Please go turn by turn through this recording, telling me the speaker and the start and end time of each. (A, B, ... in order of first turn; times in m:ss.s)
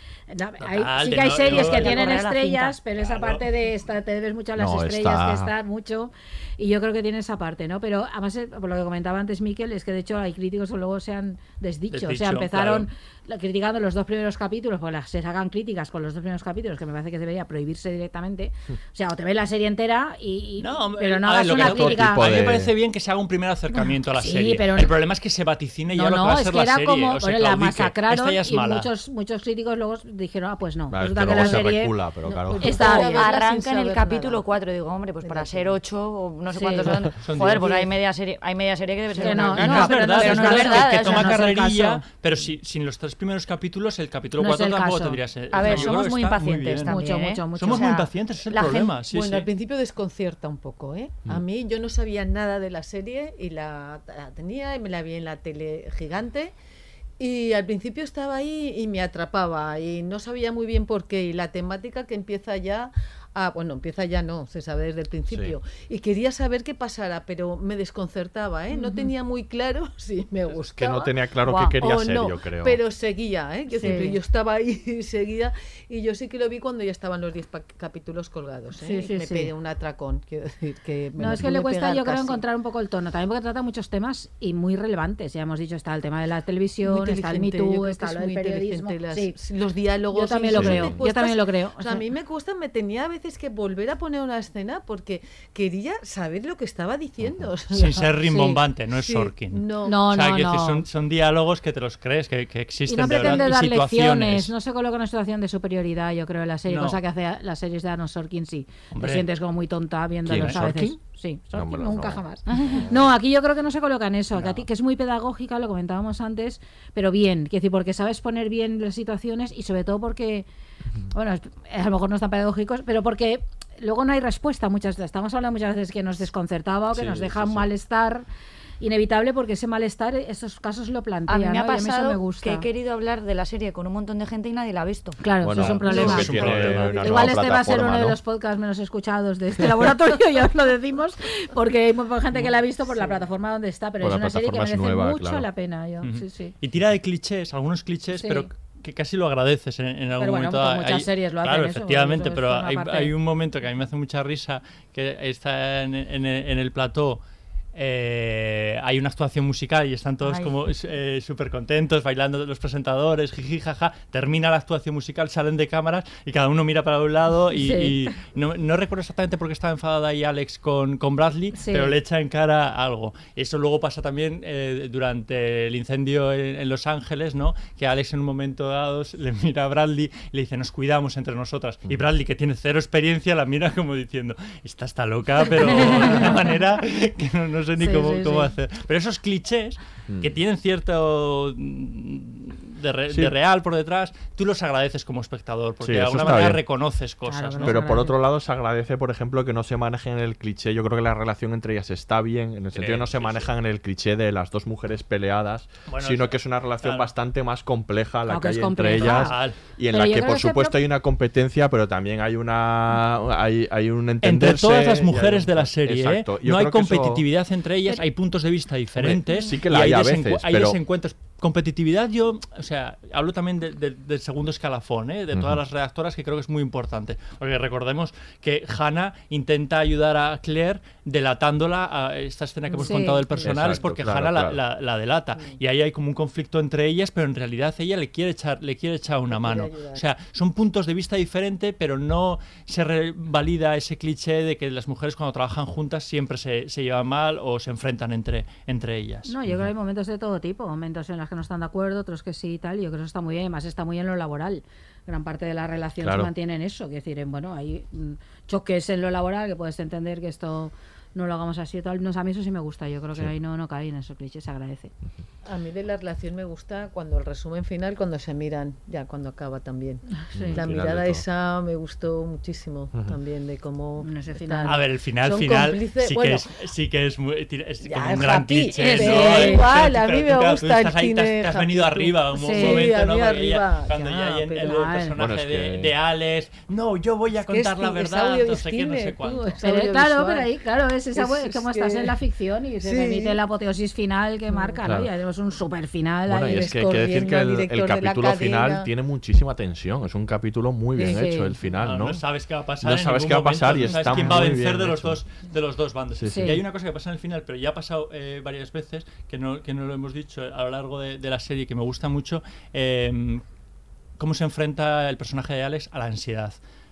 0:00.3-0:22.2 A
0:00.6-0:02.2 B
0:01.3-0:02.8 C
0:03.0-0:03.4 B
0:04.6-0:05.5 D
0:11.9-0:12.9 B
0:20.6-0:28.9 B
0:21.5-0:22.7 D
0:23.7-0:25.0 A
0:25.9-0:32.0 A
0:30.9-0:32.8 D
0:32.3-0:34.5 E
0:32.6-0:33.2 A
0:32.8-0:41.5 C
0:35.2-0:35.8 E
0:36.5-0:36.9 A
0:37.2-0:37.9 B
0:39.2-0:39.7 E
0:39.2-0:42.0 A
0:39.6-0:47.0 B
0:44.4-0:45.9 A
0:45.5-0:49.0 C
0:46.9-0:48.0 A
0:47.5-0:49.5 B
0:49.0-0:56.5 E
0:57.2-1:11.1 E
1:08.7-1:09.1 A
1:10.8-1:12.8 D
1:11.5-1:11.8 C
1:11.8-1:22.4 E
1:13.7-1:14.2 A
1:18.8-1:19.5 A
1:21.2-1:29.4 A
1:26.9-1:38.2 E
1:30.1-1:32.0 A
1:30.5-1:31.0 D
1:37.2-1:37.5 D
1:37.7-1:44.5 B
1:38.3-1:38.6 A
1:38.9-1:40.0 E
1:39.9-1:40.9 A
1:42.9-2:00.5 A
1:46.7-1:47.0 B
1:49.0-1:49.2 B
1:50.2-1:51.0 D
1:51.5-1:53.0 D
1:54.4-1:54.6 B
2:01.1-2:08.2 A
2:06.9-2:07.7 D
2:08.8-2:12.7 A
2:11.3-2:15.2 C
2:15.2-2:26.6 A
2:15.4-2:18.2 D
2:15.6-2:16.9 B
2:15.8-2:17.3 E
2:24.0-2:25.5 D
2:26.0-2:37.2 B
2:28.2-2:28.5 A
2:30.2-2:33.1 A
2:37.8-3:17.8 B
2:47.6-2:48.1 A
2:51.6-2:52.0 A
3:05.5-3:06.5 A
3:07.8-3:08.5 A
3:10.1-3:10.3 D
3:15.8-3:16.6 D
3:17.3-3:18.2 A
3:17.6-3:37.2 D
3:22.8-3:23.5 B
3:25.9-3:27.1 B
3:28.3-3:29.3 A
3:29.0-3:29.6 B
3:29.9-3:30.8 A
3:34.2-4:09.3 B
3:39.0-3:40.8 D
3:45.3-3:45.6 D
3:52.7-3:53.2 A
3:53.4-3:54.6 D
3:59.3-4:00.0 E
4:09.3-4:24.9 A
4:16.0-4:16.3 D
4:25.4-4:36.4 E
4:30.4-4:31.2 D
4:34.0-4:34.8 A
4:34.7-4:49.6 B
4:37.8-4:44.9 E
4:38.8-4:39.7 A
4:42.4-4:42.9 A
4:44.6-4:45.1 A
4:45.2-4:45.9 D
4:47.4-4:50.5 E
4:49.6-4:56.7 A
4:51.2-4:52.2 E
4:52.8-4:53.4 E
4:54.5-4:54.8 E
4:54.8-4:55.1 D
4:56.3-5:02.2 D
4:56.6-4:58.9 E
5:01.0-5:01.6 A
5:01.8-5:13.4 B
5:02.8-5:05.2 D
5:06.2-5:06.6 D
5:06.3-5:06.6 A
5:14.2-5:16.6 B